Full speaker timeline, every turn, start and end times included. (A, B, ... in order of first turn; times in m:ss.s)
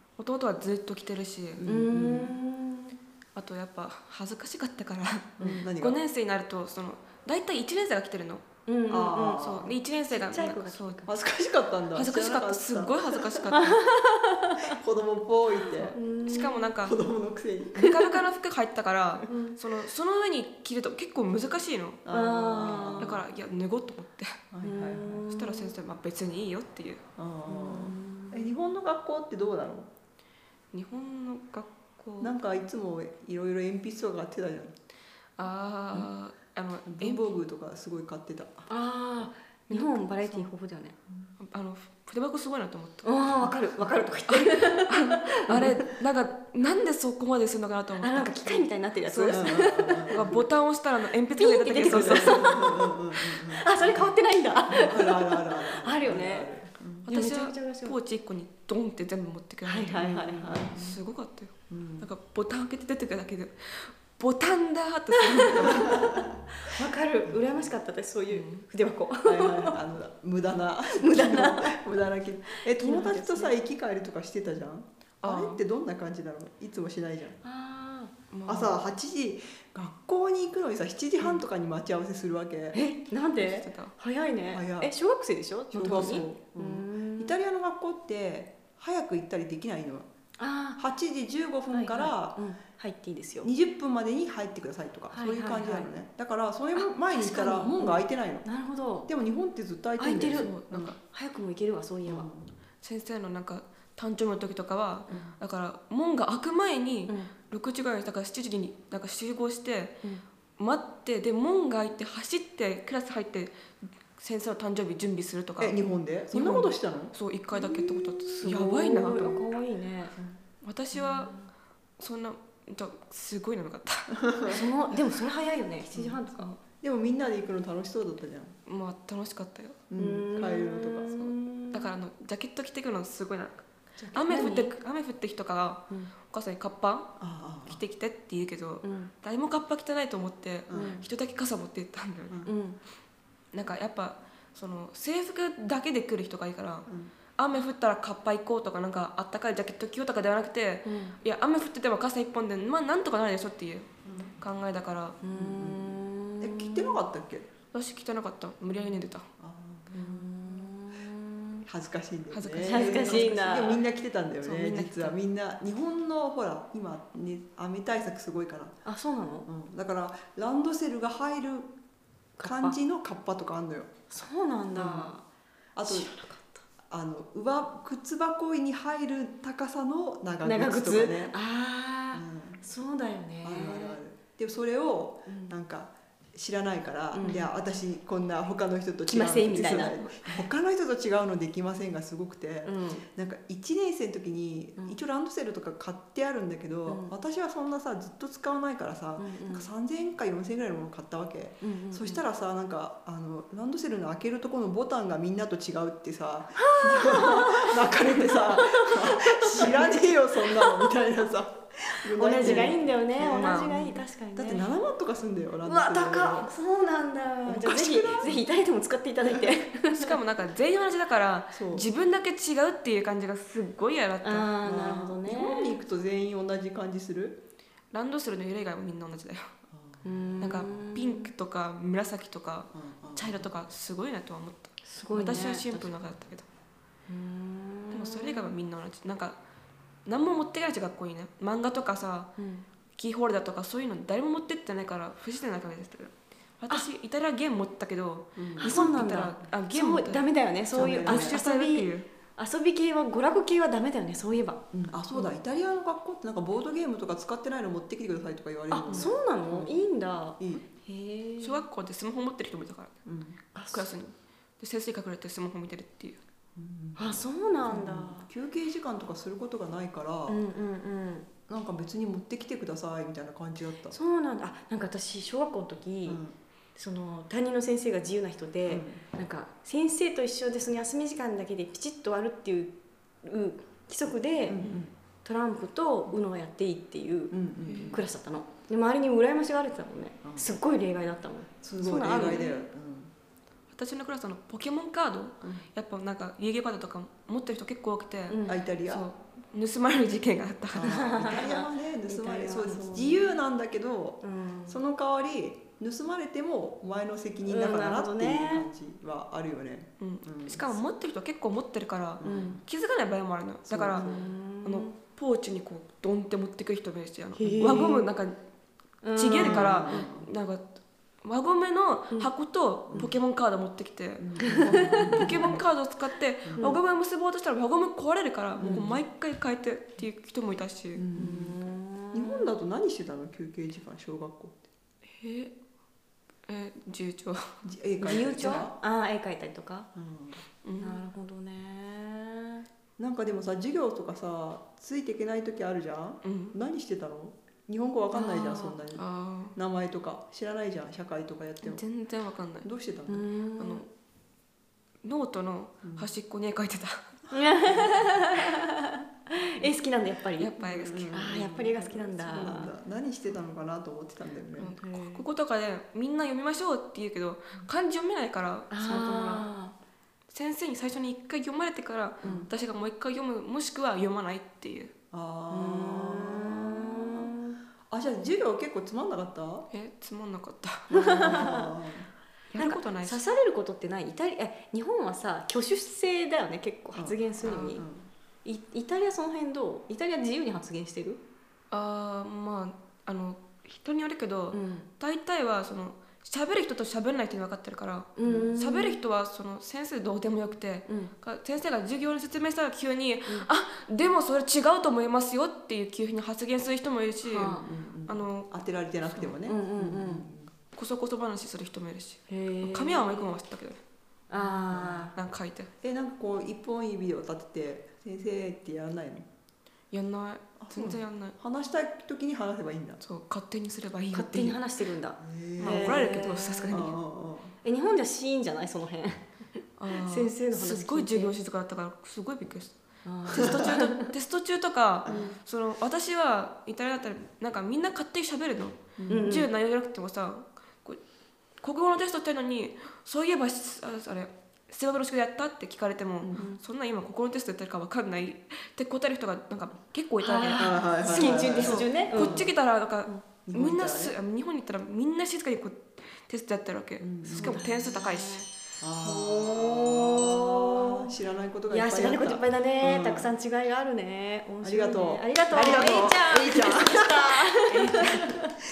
0:00.2-0:01.6 A
0:01.6-0:02.4 B
0:01.6-0:03.0 C
0:03.4-0:08.5 A
0:05.4-0:06.0 B
0:08.7-0:09.5 C
0:08.9-0:09.8 B
0:09.4-0:11.0 A
0:10.1-0:11.2 C
0:11.1-0:13.5 B
0:11.9-0:13.8 A
0:13.5-0:14.7 C
0:14.7-0:16.0 B
0:15.8-0:16.7 C
0:16.3-0:17.0 A
0:16.8-0:18.0 B
0:17.8-0:22.0 A
0:17.8-0:18.2 C
0:19.3-0:19.6 C
0:22.0-0:23.2 B
0:22.1-0:23.2 C
0:23.0-0:24.4 A
0:24.5-0:25.3 B
0:24.6-0:25.8 C
0:25.3-0:27.0 A
0:27.2-0:29.9 B
0:27.5-0:28.5 C
0:30.7-0:32.3 A
0:32.2-0:34.7 B
0:35.4-0:37.3 A
0:36.9-0:38.7 B
0:38.7-0:41.0 C
0:39.7-0:40.5 A
0:41.4-0:43.1 A
0:43.0-0:45.9 C
0:44.3-0:52.5 A
0:48.0-0:50.4 C
0:49.3-0:50.4 B
0:51.3-0:56.5 C
0:51.8-0:54.1 B
0:54.7-0:57.1 B
0:57.1-1:00.1 A
0:57.1-0:58.0 C
0:59.7-1:00.7 C
1:00.0-1:01.0 B
1:00.7-1:06.2 A
1:01.7-1:02.1 B
1:05.8-1:06.1 B
1:06.6-1:09.8 C
1:07.3-1:07.8 B
1:08.3-1:08.7 A
1:09.2-1:17.4 B
1:10.9-1:11.9 C
1:12.6-1:13.6 C
1:15.2-1:15.6 A
1:17.4-1:18.1 C
1:18.3-1:18.8 A
1:18.5-1:22.8 B
1:22.7-1:27.4 C
1:23.4-1:24.0 A
1:24.5-1:24.9 B
1:25.7-1:30.1 B
1:25.8-1:26.2 A
1:30.4-1:30.8 C
1:30.8-1:32.4 B
1:31.7-1:33.5 C
1:33.4-1:38.5 B
1:35.1-1:35.9 C
1:36.8-1:39.1 C
1:39.1-1:41.0 B
1:40.0-1:42.3 C
1:40.4-1:41.0 A
1:42.0-1:42.5 B
1:42.8-1:50.0 A
1:47.1-1:47.3 C
1:50.6-1:53.6 A
1:54.2-1:55.8 A
1:55.6-1:59.5 B
1:56.3-1:59.4 A
1:58.4-2:00.2 C
2:00.6-2:01.3 A
2:01.0-2:01.5 C
2:02.0-2:04.2 A
2:04.2-2:04.5 B
2:04.5-2:06.5 C
2:05.9-2:06.2 B
2:06.8-2:08.6 B
2:08.7-2:09.8 A
2:09.9-2:11.2 B
2:10.0-2:11.9 C
2:11.2-2:22.5 A
2:14.0-2:14.3 B
2:14.2-2:14.7 C
2:17.2-2:17.8 B
2:18.8-2:19.1 C
2:20.7-2:21.0 B
2:20.7-2:21.0 C
2:22.5-2:22.8 C
2:23.5-2:33.9 A
2:26.9-2:27.1 B
2:30.9-2:31.2 C
2:34.0-2:34.4 B
2:34.4-2:35.2 A
2:35.2-2:37.0 C
2:35.3-2:37.5 B
2:37.7-2:39.3 A
2:39.4-2:40.7 B
2:39.9-2:41.6 C
2:41.7-2:48.8 B
2:42.3-2:43.4 A
2:42.6-2:43.8 C
2:44.4-2:45.2 A
2:48.8-2:49.5 C
2:49.5-2:51.7 B
2:52.4-2:52.8 C
2:52.4-2:53.9 B
2:54.1-2:55.2 C
2:54.7-2:55.1 B
2:55.8-2:56.1 B
2:55.8-2:56.6 C
2:56.9-3:01.3 B
3:00.4-3:04.0 C
3:02.1-3:02.6 B
3:03.4-3:36.6 B
3:05.3-3:05.5 C
3:07.1-3:07.5 C
3:09.1-3:10.3 C
3:09.7-3:10.1 A
3:12.6-3:13.1 C
3:16.9-3:17.1 C
3:19.2-3:19.7 C
3:21.6-3:22.2 C
3:26.6-3:30.8 C
3:32.2-3:34.7 C
3:32.4-3:33.8 A
3:35.6-3:40.2 C
3:37.4-3:38.4 B
3:39.9-3:44.5 A
3:41.5-3:41.9 B
3:44.2-3:45.8 C
3:44.6-3:47.4 B
3:47.9-3:49.5 A
3:49.7-3:50.8 B
3:50.0-3:51.3 C
3:50.4-3:56.5 A
3:52.7-3:53.5 B
3:54.8-3:55.9 C
3:57.1-3:58.6 C
3:57.9-3:59.4 A
4:00.1-4:02.3 A
4:02.4-4:02.7 C
4:03.0-4:12.1 A
4:08.4-4:09.1 B
4:08.6-4:14.6 C
4:10.7-4:11.4 B
4:14.7-4:19.8 B
4:18.7-4:21.6 C
4:20.4-4:20.7 B
4:21.4-4:23.0 A
4:23.1-4:23.4 B
4:23.6-4:23.9 C
4:23.7-4:26.2 A
4:26.6-4:30.4 B
4:27.0-4:28.3 C
4:30.3-4:31.3 C
4:31.5-4:34.0 B
4:33.9-4:36.2 C
4:36.1-4:36.4 B
4:36.8-4:44.7 C
4:38.7-4:39.0 B
4:44.5-4:44.9 B
4:45.2-4:47.4 C
4:47.3-4:48.1 B
4:47.6-4:48.0 A
4:47.9-4:52.6 C
4:50.2-4:50.6 B
4:51.6-4:53.1 B
4:52.1-4:52.6 A
4:53.7-5:01.2 A
4:58.3-4:58.6 C
4:58.5-4:59.0 B
5:00.7-5:10.8 B
5:00.8-5:03.3 C
5:04.2-5:04.8 C
5:07.5-5:08.7 C
5:10.0-5:18.4 A
5:12.2-5:12.6 B
5:12.2-5:12.6 C
5:13.7-5:14.3 B
5:13.9-5:14.9 C
5:17.4-5:18.1 C
5:17.6-5:18.0 B
5:19.0-5:20.1 C
5:19.2-5:20.7 A
5:19.3-5:20.3 B
5:21.2-5:31.0 A
5:22.9-5:23.2 B
5:24.2-5:25.6 B
5:24.6-5:25.3 C
5:26.5-5:26.8 B
5:26.6-5:26.8 C
5:28.6-5:29.0 B
5:31.0-5:34.6 B
5:31.1-5:32.5 C
5:35.1-5:35.5 A
5:36.5-5:37.5 A
5:37.6-5:38.8 B
5:38.0-5:39.9 C
5:40.0-5:40.4 B
5:40.6-5:41.0 A
5:40.8-5:42.6 C
5:43.0-5:51.8 B
5:46.2-5:46.6 A
5:48.2-5:48.7 C
5:48.2-5:49.6 A
5:51.6-5:52.7 A
5:52.6-5:53.3 B
5:53.1-5:53.9 C
5:53.6-5:53.8 A
5:55.0-5:57.2 A
5:55.8-5:56.1 B
5:57.3-6:00.6 C
5:57.6-5:58.2 B
6:00.4-6:01.3 A
6:00.6-6:04.8 B
6:01.1-6:02.7 C
6:04.6-6:09.5 A
6:04.6-6:05.3 C
6:08.7-6:09.8 C
6:10.3-6:14.9 A
6:12.2-6:12.5 B
6:15.1-6:17.3 B
6:15.5-6:17.6 C
6:17.9-6:19.7 B
6:19.7-6:21.4 A
6:20.9-6:22.1 B
6:20.9-6:21.7 C
6:22.5-6:23.2 A
6:22.6-6:27.9 C
6:27.0-6:28.1 B
6:27.4-6:27.7 A
6:28.4-6:31.2 C
6:31.7-6:48.5 A
6:34.5-6:34.9 C
6:38.2-6:39.0 C
6:38.2-6:38.5 B
6:40.9-6:41.1 C
6:47.2-6:47.7 C
6:47.5-6:50.5 B
6:49.0-6:49.4 A
6:49.4-6:50.3 C
6:50.7-6:53.8 A
6:52.3-6:53.4 C
6:54.3-6:55.1 C
6:54.4-6:55.1 B
6:55.2-6:55.7 A
6:55.8-6:59.3 B
6:59.9-7:01.4 A
7:00.6-7:03.0 B
7:03.0-7:04.6 A
7:04.1-7:06.9 C
7:05.2-7:07.6 B
7:05.6-7:07.0 A
7:07.6-7:09.3 C
7:09.8-7:21.0 A
7:09.9-7:11.3 C
7:13.0-7:14.1 C
7:13.3-7:13.7 B
7:15.0-7:15.3 B
7:15.1-7:15.3 C
7:19.0-7:19.4 B
7:19.1-7:19.5 C
7:21.6-7:38.5 A
7:26.2-7:26.5 B
7:30.2-7:32.5 C
7:30.6-7:32.5 B
7:33.5-7:34.2 B
7:37.0-7:37.6 B
7:37.3-7:38.5 C
7:38.8-7:43.3 B
7:39.0-7:40.9 C
7:41.7-7:48.6 C
7:44.6-7:48.3 B